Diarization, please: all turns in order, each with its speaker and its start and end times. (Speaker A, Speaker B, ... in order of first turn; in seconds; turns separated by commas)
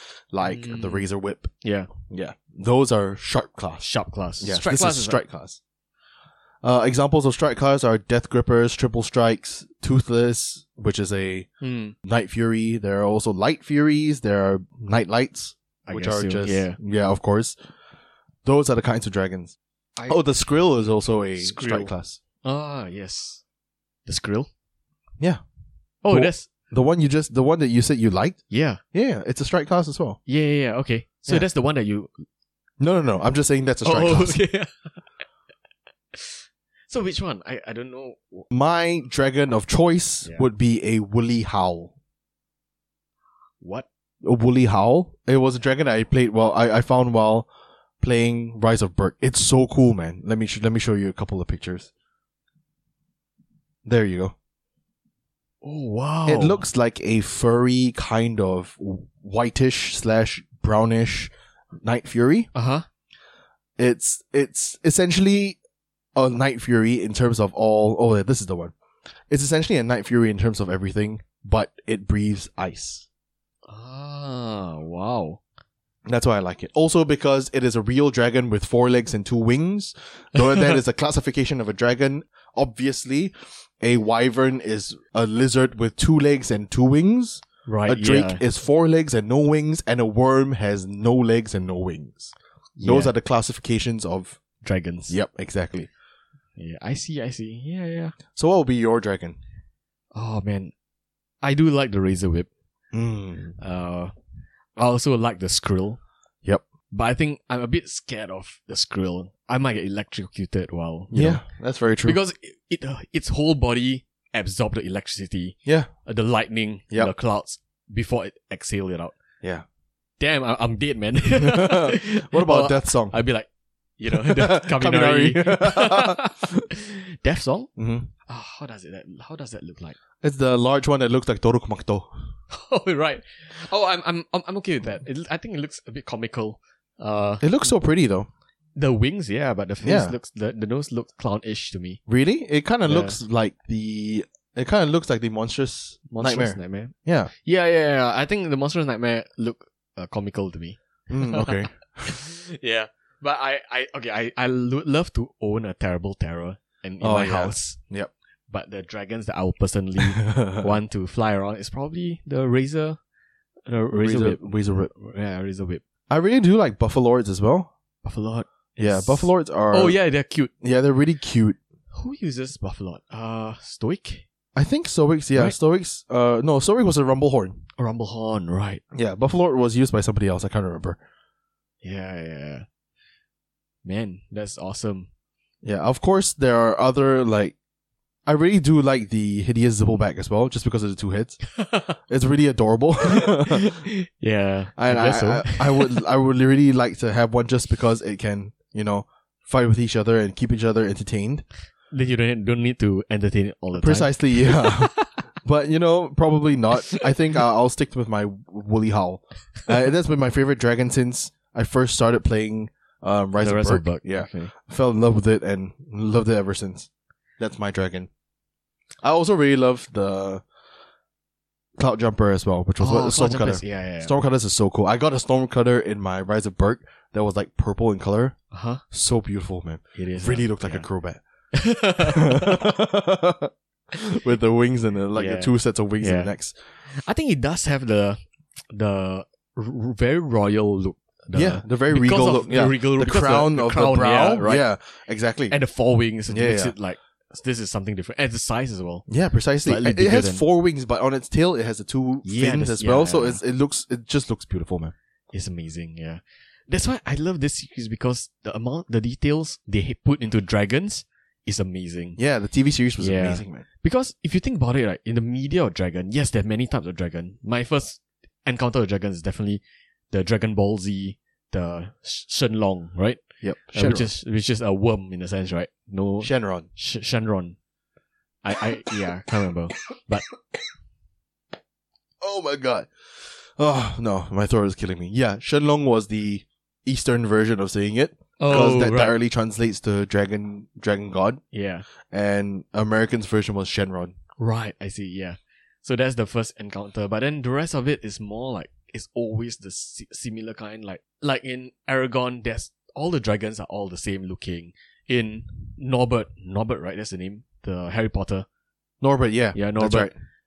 Speaker A: 0.3-1.5, Speaker B: 0.4-1.1, Speaker B: 1.6-1.9, Speaker A: 2.1-3.9, Speaker B: 3.8-5.2, Speaker A: 4.4-5.6, Speaker A: 6.6-11.5, Speaker B: 11.6-11.9, Speaker A: 12.1-17.6, Speaker B: 15.9-16.8, Speaker A: 18.4-22.2, Speaker B: 21.4-21.9, Speaker B: 22.4-23.4, Speaker B: 24.1-24.5, Speaker B: 26.0-26.5, Speaker A: 26.1-28.4, Speaker B: 28.5-28.8, Speaker A: 28.9-30.2, Speaker B: 30.3-32.2, Speaker A: 32.8-34.4, Speaker B: 33.9-34.9, Speaker B: 36.1-38.5, Speaker A: 38.5-41.9, Speaker B: 43.6-43.9, Speaker A: 44.2-47.5, Speaker A: 48.0-51.9, Speaker A: 53.9-54.3, Speaker B: 55.6-56.6, Speaker A: 56.3-62.5, Speaker B: 62.5-62.9, Speaker A: 63.8-65.6, Speaker A: 66.2-68.7, Speaker A: 69.3-73.1, Speaker B: 73.7-75.4, Speaker A: 76.1-94.4, Speaker B: 80.4-80.8, Speaker B: 87.7-88.4, Speaker B: 92.8-93.1, Speaker B: 94.6-95.2, Speaker A: 95.1-95.9, Speaker B: 96.6-98.2, Speaker A: 98.3-99.4, Speaker B: 100.1-100.7, Speaker B: 101.4-102.5, Speaker A: 102.9-103.6, Speaker B: 103.6-104.1, Speaker B: 104.8-106.0, Speaker B: 106.9-111.4, Speaker A: 111.1-112.2, Speaker B: 112.0-119.2, Speaker B: 120.2-127.7, Speaker A: 121.3-123.2, Speaker A: 124.1-126.7, Speaker A: 127.8-128.1, Speaker B: 128.3-130.0, Speaker A: 130.2-132.1, Speaker B: 132.5-137.5, Speaker A: 137.4-138.3, Speaker B: 138.8-142.0, Speaker A: 139.8-140.2, Speaker A: 142.1-147.3, Speaker B: 142.9-143.2, Speaker B: 146.1-157.8, Speaker A: 151.1-152.2, Speaker A: 157.0-158.1, Speaker B: 158.5-163.0, Speaker A: 160.1-160.7, Speaker B: 163.7-165.8, Speaker A: 164.0-164.9, Speaker A: 166.1-167.7, Speaker B: 168.0-170.5, Speaker A: 168.8-170.0, Speaker A: 170.6-171.6, Speaker B: 171.9-174.3, Speaker A: 174.6-177.6, Speaker B: 177.8-178.8, Speaker A: 178.9-181.0, Speaker B: 181.8-182.7, Speaker B: 183.8-185.1, Speaker A: 185.6-187.6, Speaker A: 188.3-191.4, Speaker B: 191.6-191.9, Speaker A: 192.1-193.8, Speaker B: 193.2-196.0, Speaker A: 194.8-201.4, Speaker B: 201.9-205.2, Speaker A: 203.7-218.1, Speaker B: 213.4-214.5, Speaker A: 219.0-220.4, Speaker A: 221.8-228.4, Speaker B: 222.8-224.2, Speaker B: 228.5-228.8, Speaker A: 228.9-231.2, Speaker B: 230.0-230.9, Speaker B: 231.5-232.7, Speaker A: 232.0-236.6, Speaker B: 235.2-236.3, Speaker B: 236.9-238.2, Speaker B: 238.7-244.7, Speaker A: 241.3-245.6, Speaker B: 245.5-249.1, Speaker A: 246.3-246.7, Speaker A: 249.1-254.9, Speaker B: 249.6-250.4, Speaker B: 252.2-253.4, Speaker B: 255.3-262.2, Speaker A: 262.2-263.6, Speaker B: 263.0-273.2, Speaker A: 273.4-274.1, Speaker B: 273.7-277.6, Speaker A: 276.2-276.7, Speaker B: 278.4-280.3, Speaker A: 282.2-282.9, Speaker A: 283.6-291.4, Speaker B: 288.4-289.1, Speaker B: 291.5-291.9, Speaker A: 292.1-294.1, Speaker B: 294.4-308.5, Speaker A: 309.0-310.1, Speaker B: 309.6-310.1